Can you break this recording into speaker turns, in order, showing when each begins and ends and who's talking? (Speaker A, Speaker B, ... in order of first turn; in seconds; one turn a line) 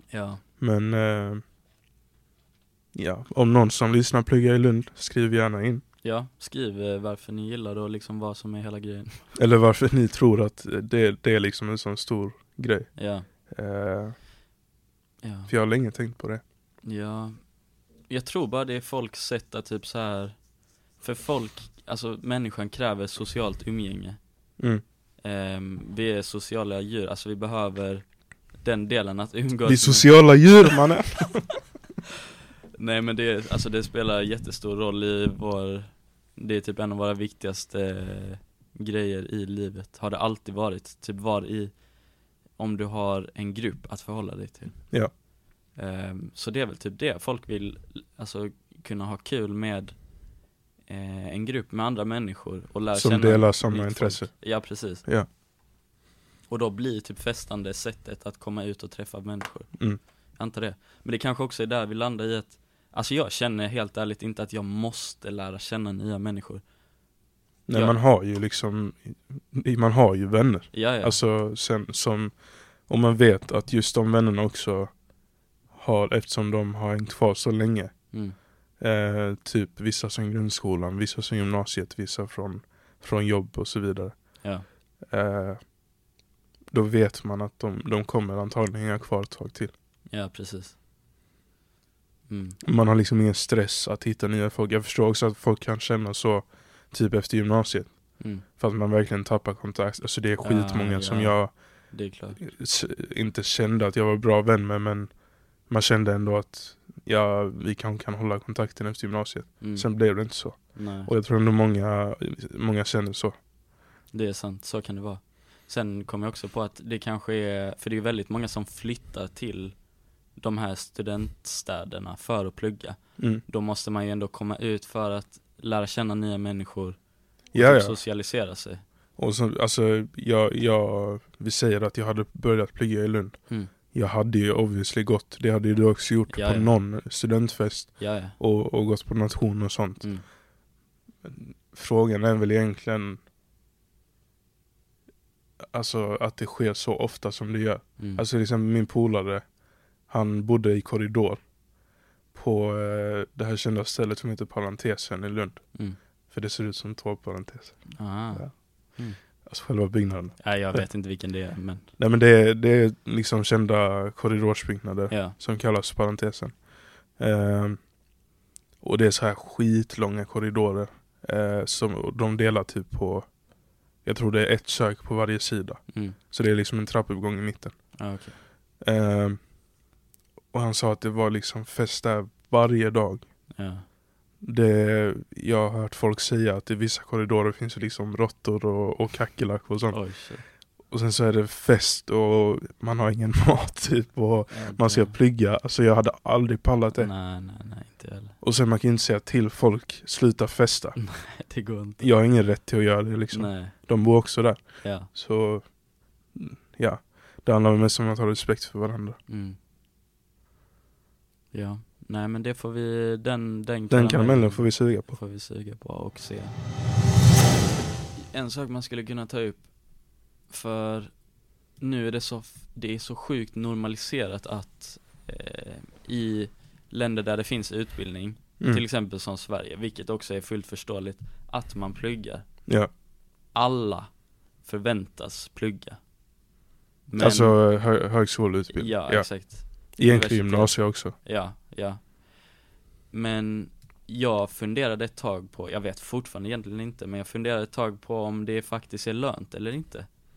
Speaker A: 0.1-0.4
Speaker B: 0.6-1.4
Speaker B: 2.9-5.8
Speaker A: 6.0-9.4
Speaker B: 9.3-13.0
Speaker A: 13.0-13.3
Speaker B: 13.5-14.2
Speaker A: 15.2-15.5
Speaker B: 15.5-16.4
Speaker A: 16.8-17.4
Speaker A: 18.1-20.4
Speaker A: 21.0-24.2
Speaker A: 25.2-28.1
Speaker A: 28.6-30.5
Speaker B: 29.6-31.5
Speaker A: 32.8-41.7
Speaker A: 42.6-44.9
Speaker A: 45.8-50.0
Speaker A: 50.9-55.1
Speaker B: 52.9-55.3
Speaker A: 56.5-59.8
Speaker A: 60.4-66.6
Speaker B: 67.7-72.4
Speaker A: 67.7-68.0
Speaker A: 70.7-71.2
Speaker B: 72.9-74.9
Speaker B: 75.7-78.1
Speaker B: 78.8-84.2
Speaker B: 85.1-85.7
Speaker B: 86.7-89.7
Speaker A: 90.1-90.8
Speaker A: 92.3-92.6
Speaker B: 92.6-101.5
Speaker A: 98.2-98.4
Speaker A: 100.4-102.4
Speaker B: 102.4-105.1
Speaker B: 105.7-113.3
Speaker A: 109.6-109.9
Speaker A: 110.7-111.1
Speaker A: 114.1-119.8
Speaker A: 120.4-127.0
Speaker B: 123.2-123.4
Speaker B: 127.5-128.0
Speaker A: 127.5-128.8
Speaker B: 129.2-133.4
Speaker B: 133.9-140.1
Speaker A: 136.3-136.7
Speaker A: 138.0-138.4
Speaker B: 141.2-143.2
Speaker B: 145.7-149.4
Speaker A: 148.0-148.2
Speaker B: 150.1-151.4
Speaker B: 152.3-155.7
Speaker B: 156.3-158.6
Speaker A: 158.0-159.2
Speaker B: 159.4-160.9
Speaker A: 160.4-161.9
Speaker B: 162.0-166.6
Speaker A: 165.1-165.4
Speaker B: 167.2-167.8
Speaker B: 168.8-173.3
Speaker B: 174.0-177.9
Speaker A: 175.9-176.2
Speaker A: 178.0-178.4
Speaker B: 178.8-179.4
Speaker B: 180.5-183.2
Speaker A: 183.5-183.8
Speaker B: 184.4-190.0
Speaker A: 189.9-190.4
Speaker B: 190.9-197.1
Speaker A: 194.5-195.2
Speaker A: 196.9-198.4
Speaker B: 198.4-201.0
Speaker A: 201.0-202.0
Speaker B: 202.0-205.7
Speaker A: 203.3-203.8
Speaker A: 204.8-205.1
Speaker B: 206.3-209.2
Speaker A: 209.3-209.6
Speaker A: 211.5-216.6
Speaker B: 213.9-215.2
Speaker A: 218.2-219.7
Speaker A: 220.5-221.1
Speaker A: 221.8-232.5
Speaker A: 233.5-236.0
Speaker A: 237.1-237.6
Speaker B: 237.2-241.2
Speaker A: 238.7-242.2
Speaker A: 243.1-250.1